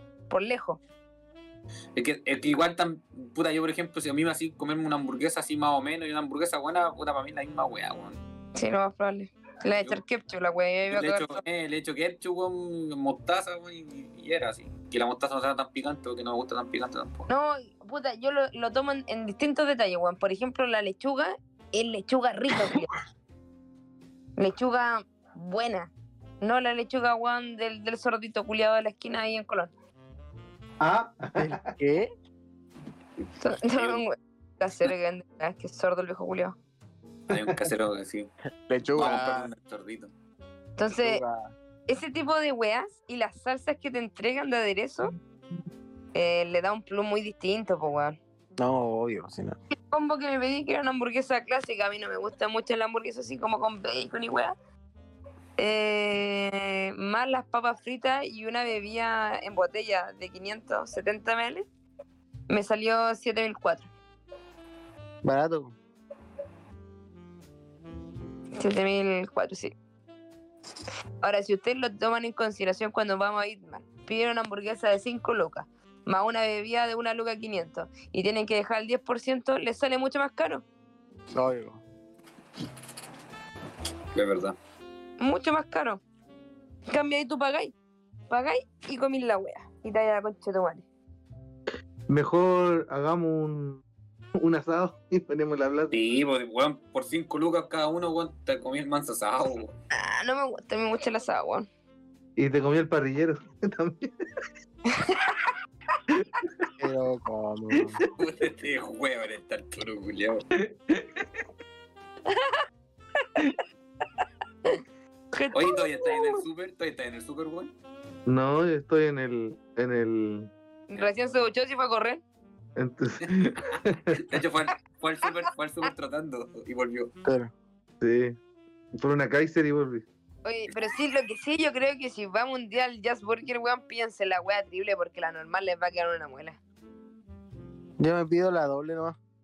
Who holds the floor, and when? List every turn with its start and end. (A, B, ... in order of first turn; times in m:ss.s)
0:00.3-0:00.8 A
0:02.0-0:08.2 B
0:08.6-0:11.4 A
0:10.9-0:17.3 B
0:17.3-0:22.9 A
0:24.4-0:29.7 A
0:30.8-0:31.7 C
0:31.4-0:32.1 D
0:33.4-0:36.6 A
0:33.7-0:34.0 B
0:37.3-0:38.3 B
0:38.7-0:39.5 D
0:38.9-0:40.1 B
0:40.8-0:41.2 A
0:40.9-0:41.5 D
0:41.9-0:45.1 A
0:46.1-0:48.2 A
0:48.6-0:49.6 D
0:49.9-0:54.5 A
0:55.6-1:01.7 A
1:02.5-1:03.9 A
1:05.2-1:05.8 D
1:08.6-1:09.7 A
1:11.2-1:20.6 A
1:21.3-1:21.8 D
1:24.1-1:24.6 B
1:25.2-1:26.0 A
1:26.9-1:27.7 A
1:28.3-1:30.9 A
1:32.1-1:33.8 C
1:34.4-1:36.0 C
1:35.9-1:39.8 B
1:39.9-1:41.7 A
1:42.4-1:44.1 C
1:44.9-1:45.5 A
1:46.2-1:46.6 C
1:46.8-1:48.0 D
1:48.2-1:50.4 B
1:50.6-1:51.4 C
1:52.3-1:52.6 A
1:55.3-1:56.4 A
1:55.5-1:57.7 B
1:58.3-2:00.5 C
2:00.9-2:02.2 A
2:02.8-2:04.4 C
2:03.2-2:07.1 B
2:07.2-2:07.5 D
2:08.0-2:08.4 C
2:09.0-2:10.1 C
2:10.4-2:16.6 A
2:18.0-2:19.2 D